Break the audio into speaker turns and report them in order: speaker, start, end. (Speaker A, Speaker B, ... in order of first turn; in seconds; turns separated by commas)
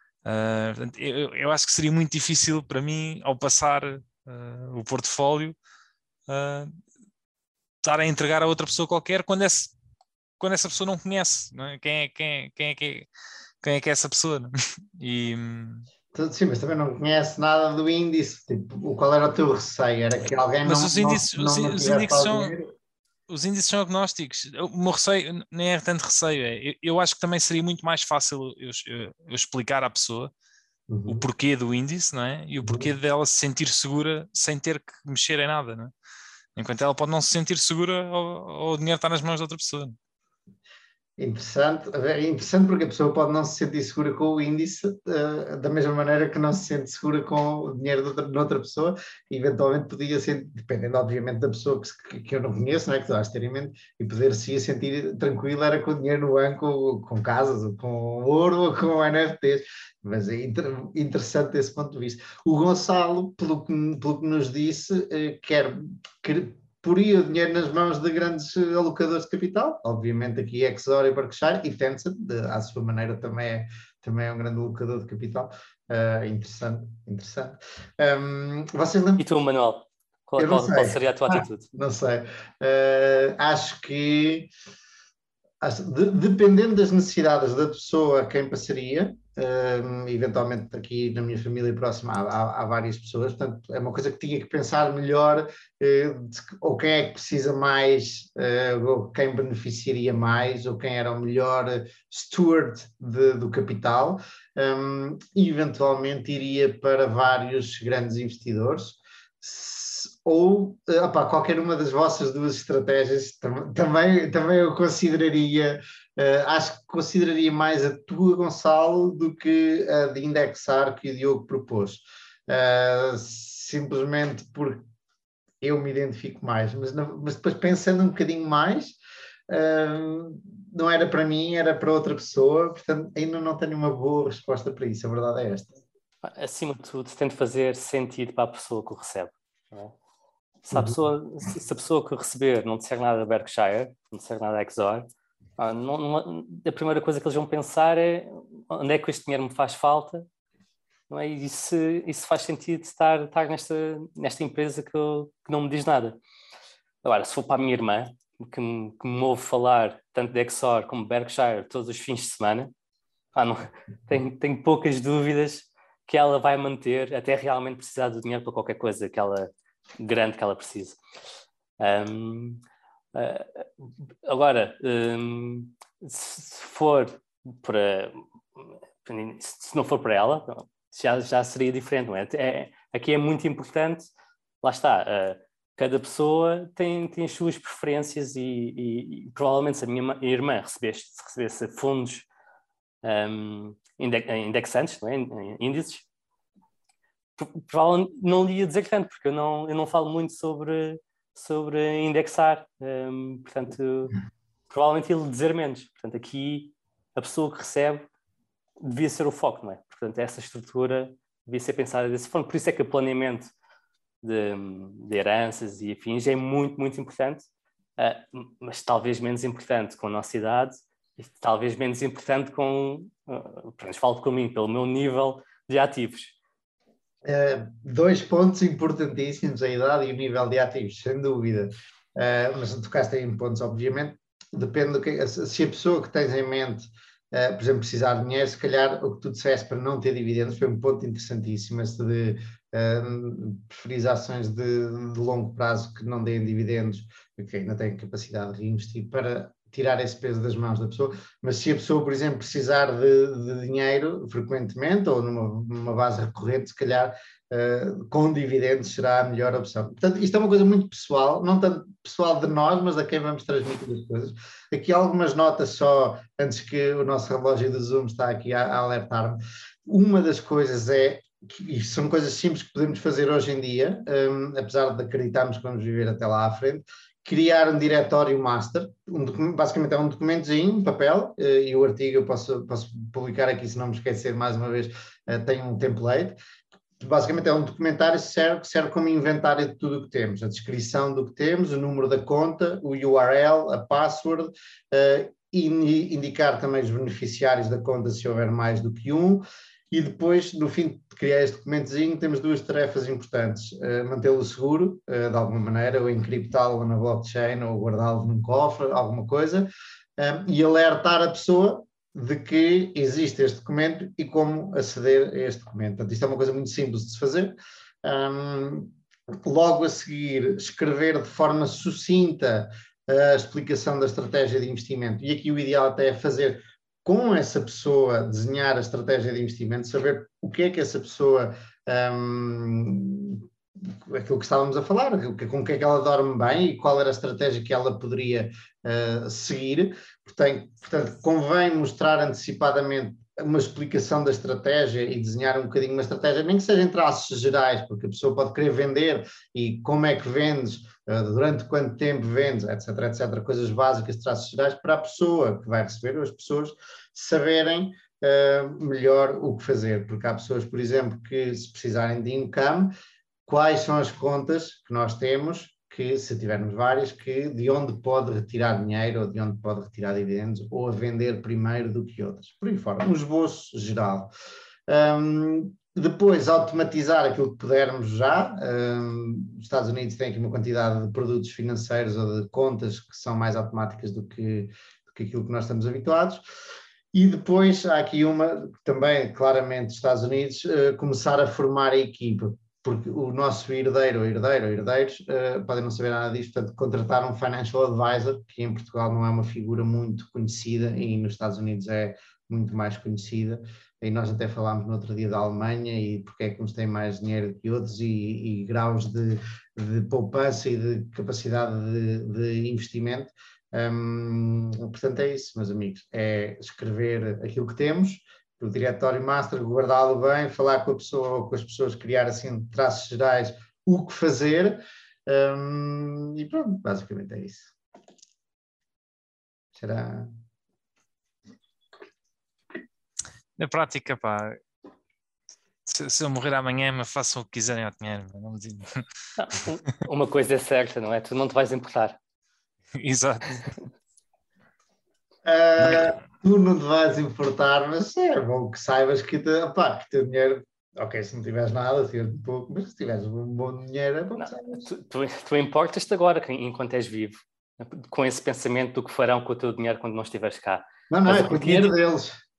Speaker A: 0.2-5.6, Speaker A: 6.3-6.8, Speaker A: 7.8-9.7, Speaker A: 10.4-13.1, Speaker A: 13.6-15.9, Speaker B: 16.1-22.7, Speaker A: 20.6-22.6, Speaker A: 23.3-30.3, Speaker B: 30.9-31.3, Speaker A: 31.1-35.9, Speaker B: 32.6-32.9, Speaker A: 36.6-40.0, Speaker B: 41.2-79.2, Speaker C: 79.2-81.7, Speaker B: 80.4-84.5, Speaker B: 85.6-124.8, Speaker B: 125.6-129.0, Speaker B: 129.5-135.8, Speaker C: 136.2-139.9, Speaker C: 140.7-145.1, Speaker B: 140.7-141.0, Speaker C: 145.6-150.3, Speaker C: 151.1-156.2, Speaker C: 157.0-162.7, Speaker C: 163.3-171.0, Speaker C: 171.8-172.6, Speaker C: 173.1-184.1, Speaker C: 184.6-192.3, Speaker C: 193.0-196.1, Speaker C: 197.4-204.2, Speaker C: 204.7-208.1, Speaker C: 208.8-213.5, Speaker C: 214.2-217.4, Speaker C: 218.0-226.4, Speaker B: 227.3-286.4, Speaker B: 287.0-333.4, Speaker B: 334.1-362.9, Speaker B: 363.5-374.3, Speaker B: 374.9-386.4, Speaker B: 387.1-427.7, Speaker B: 429.8-430.4, Speaker A: 433.6-434.6, Speaker A: 435.9-439.1, Speaker C: 439.4-442.2, Speaker A: 442.9-443.7, Speaker B: 445.4-454.9, Speaker A: 445.8-446.1, Speaker C: 454.4-462.0, Speaker B: 461.1-462.4